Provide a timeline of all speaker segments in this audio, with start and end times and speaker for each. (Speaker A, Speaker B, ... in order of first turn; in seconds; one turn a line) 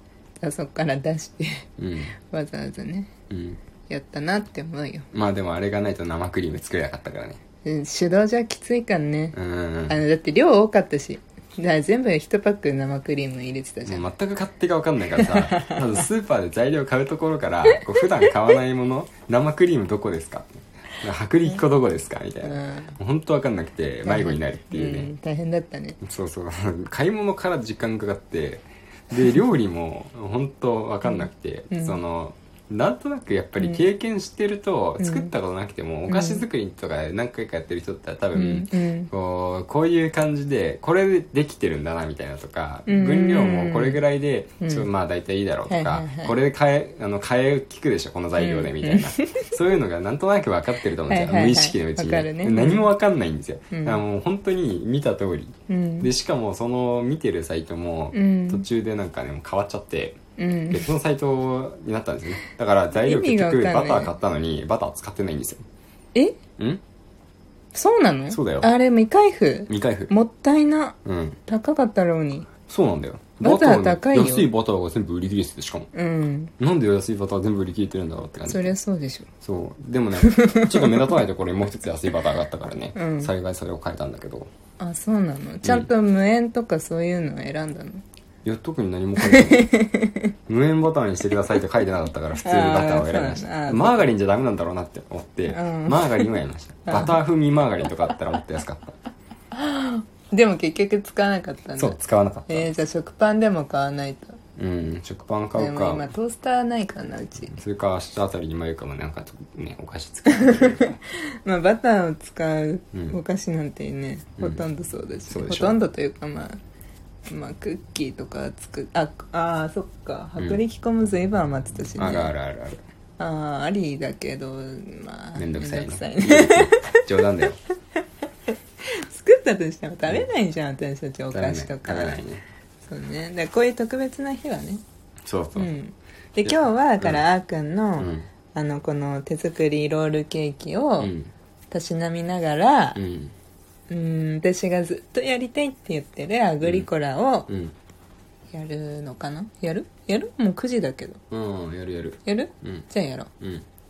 Speaker A: 0.4-1.7
Speaker B: 1.8-2.2
Speaker A: 2.3-3.1
Speaker B: 3.3-3.6
Speaker A: 3.9-5.1
Speaker B: 5.1-7.4
Speaker A: 7.6-9.3
Speaker B: 9.3-10.0
Speaker A: 9.9-14.0
Speaker B: 13.8-25.1
Speaker A: 15.2-16.0
Speaker A: 17.7-18.3
Speaker A: 22.4-23.0
Speaker A: 24.0-26.0
Speaker B: 26.0-60.2
Speaker A: 31.0-32.0
Speaker A: 35.0-35.3
Speaker A: 36.1-36.5
Speaker A: 38.3-39.1
Speaker A: 42.9-44.0
Speaker A: 44.6-44.9
Speaker A: 45.7-46.3
Speaker A: 48.4-49.5
Speaker A: 51.1-52.9
Speaker A: 53.7-54.0
Speaker A: 55.7-56.1
Speaker A: 58.1-58.7
Speaker A: 60.4-60.9
Speaker B: 60.7-65.6
Speaker A: 62.9-64.1
Speaker A: 67.7-72.5
Speaker B: 68.3-68.7
Speaker B: 69.7-70.1
Speaker B: 71.0-71.4
Speaker B: 72.7-75.9
Speaker A: 73.4-74.5
Speaker A: 75.9-76.5
Speaker B: 76.6-78.7
Speaker A: 78.5-79.3
Speaker B: 79.4-84.5
Speaker A: 80.2-81.2
Speaker A: 83.0-83.3
Speaker A: 84.8-88.0
Speaker B: 85.6-85.9
Speaker B: 88.5-89.7
Speaker A: 89.2-90.3
Speaker B: 90.5-99.0
Speaker A: 92.4-94.1
Speaker A: 95.5-96.3
Speaker A: 96.8-97.2
Speaker A: 99.5-104.4
Speaker B: 101.8-102.7
Speaker B: 104.5-106.1
Speaker A: 105.5-107.6
Speaker B: 107.5-111.0
Speaker A: 110.3-116.6
Speaker B: 112.9-113.2
Speaker B: 114.4-114.7
Speaker B: 115.3-115.8
Speaker A: 117.3-122.3
Speaker B: 122.0-122.8
Speaker A: 123.2-127.2
Speaker B: 125.3-127.6
Speaker A: 129.0-132.2
Speaker B: 131.3-132.4
Speaker A: 132.8-134.8
Speaker B: 135.2-135.7
Speaker A: 135.6-141.1
Speaker B: 136.4-137.2
Speaker B: 138.0-138.3
Speaker B: 141.0-141.3
Speaker A: 141.7-143.0
Speaker B: 142.9-143.3
Speaker A: 143.9-147.5
Speaker B: 146.6-146.9
Speaker B: 147.5-147.7
Speaker A: 148.5-151.2
Speaker B: 151.3-152.8
Speaker A: 152.2-153.3
Speaker B: 153.4-153.7